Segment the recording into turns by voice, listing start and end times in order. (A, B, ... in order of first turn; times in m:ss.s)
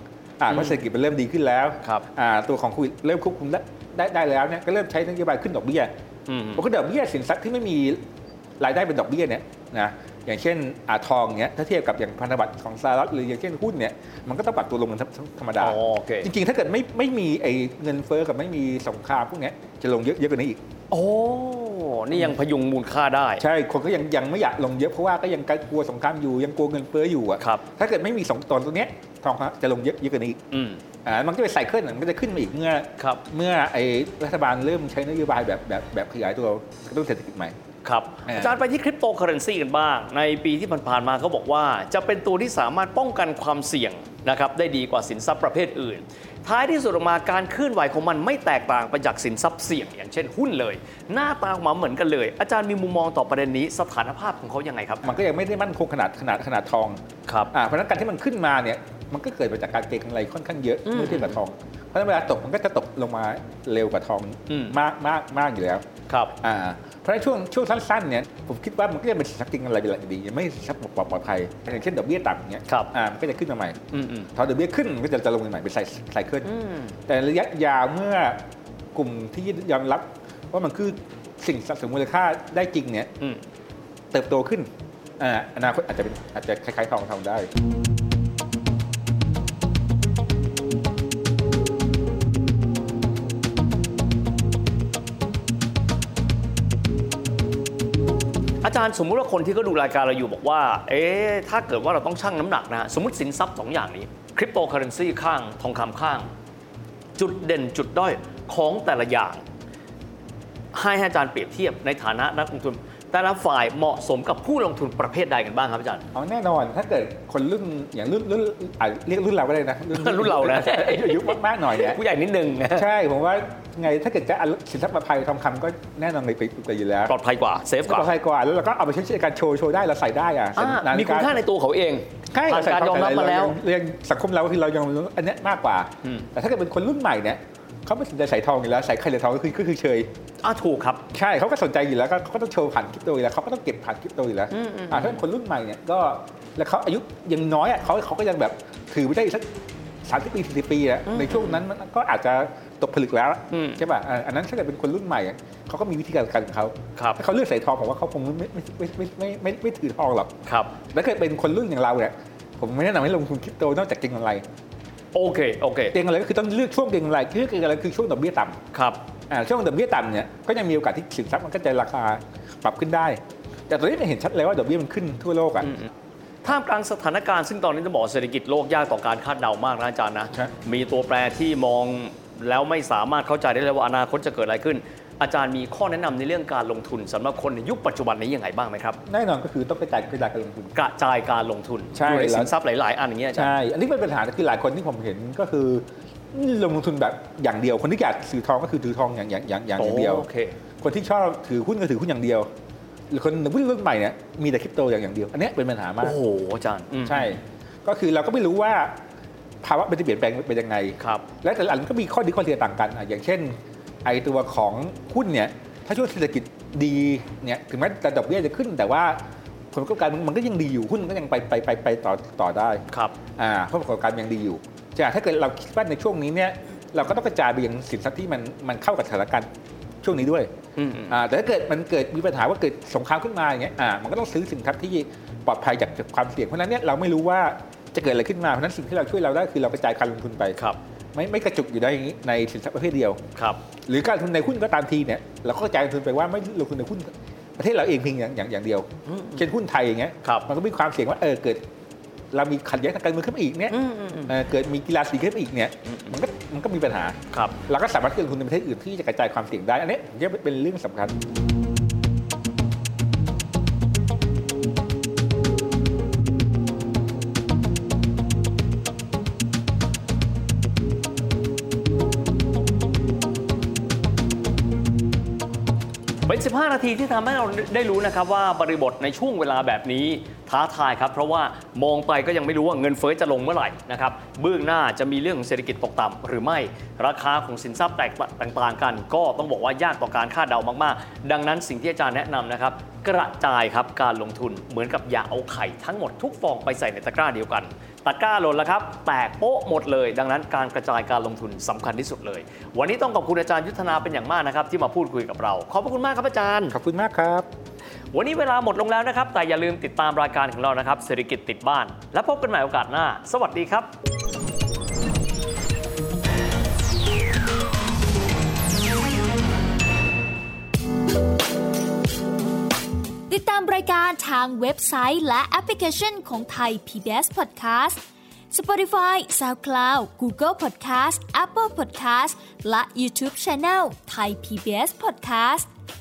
0:00.4-0:05.9 A
0:00.5-0:00.8 B
0:06.3-0:06.6 B
0:06.6-0:08.0 A
0:08.6-0:20.6 A
0:15.6-0:16.3 B
0:20.9-0:23.4 B
0:23.4-0:30.4 A
0:27.4-0:27.6 B
0:30.5-0:30.8 B
0:31.0-0:37.5 A
0:37.8-0:55.2 B
0:38.2-0:38.6 A
0:55.0-0:57.0 A
0:57.3-0:57.5 B
0:57.5-1:05.8 A
1:00.8-1:01.4 B
1:04.5-1:04.8 B
1:06.1-1:06.3 B
1:06.4-1:13.8 A
1:13.9-1:14.3 B
1:14.3-1:16.5 A
1:16.4-1:17.0 B
1:17.1-1:18.4 A
1:18.9-1:23.1 A
1:24.1-1:27.5 A
1:38.6-1:46.3 B
1:47.2-1:49.4 B
1:50.7-1:56.0 B
1:56.1-2:02.0 A
1:59.9-2:02.9 B
2:02.7-2:07.1 A
2:07.1-2:08.1 B
2:07.8-2:11.4 A
2:10.6-2:13.6 B
2:12.3-2:20.1 A
2:20.4-2:21.0 B
2:21.1-2:29.5 A
2:24.5-2:25.2 B
2:30.0-2:40.3 A
2:31.1-2:31.6 B
2:33.5-2:33.8 B
2:40.4-2:40.7 B
2:40.9-2:44.4 A
2:45.1-2:46.0 B
2:45.9-2:48.6 A
2:48.7-2:49.0 B
2:49.3-2:55.8 A
2:56.4-3:09.0 B
3:09.1-3:10.7 A
3:10.7-3:13.5 B
3:11.9-3:12.5 A
3:13.3-3:20.2 A
3:19.8-3:20.6 B
3:20.8-3:22.5 A
3:23.1-3:26.2 A
3:26.0-3:27.4 B
3:27.0-3:28.9 A
3:29.6-3:39.2 A
3:31.0-3:31.2 B
3:39.7-3:42.8 A
3:42.9-3:43.2 B
3:43.4-3:49.5 A
3:50.0-3:50.5 A
3:50.8-3:51.2 B
3:51.1-4:00.6 A
4:01.1-4:03.2 A
4:03.4-4:03.6 B
4:03.9-4:11.6 A
4:09.1-4:09.4 B
4:12.3-4:17.2 A
4:13.7-4:14.3 B
4:15.9-4:16.1 B
4:17.3-4:17.6 B
4:17.7-4:21.2 A
4:36.2-5:06.8 B
5:06.7-5:07.5 A
5:08.1-5:13.9 B
5:23.3-5:28.0 C
5:28.5-5:35.7 C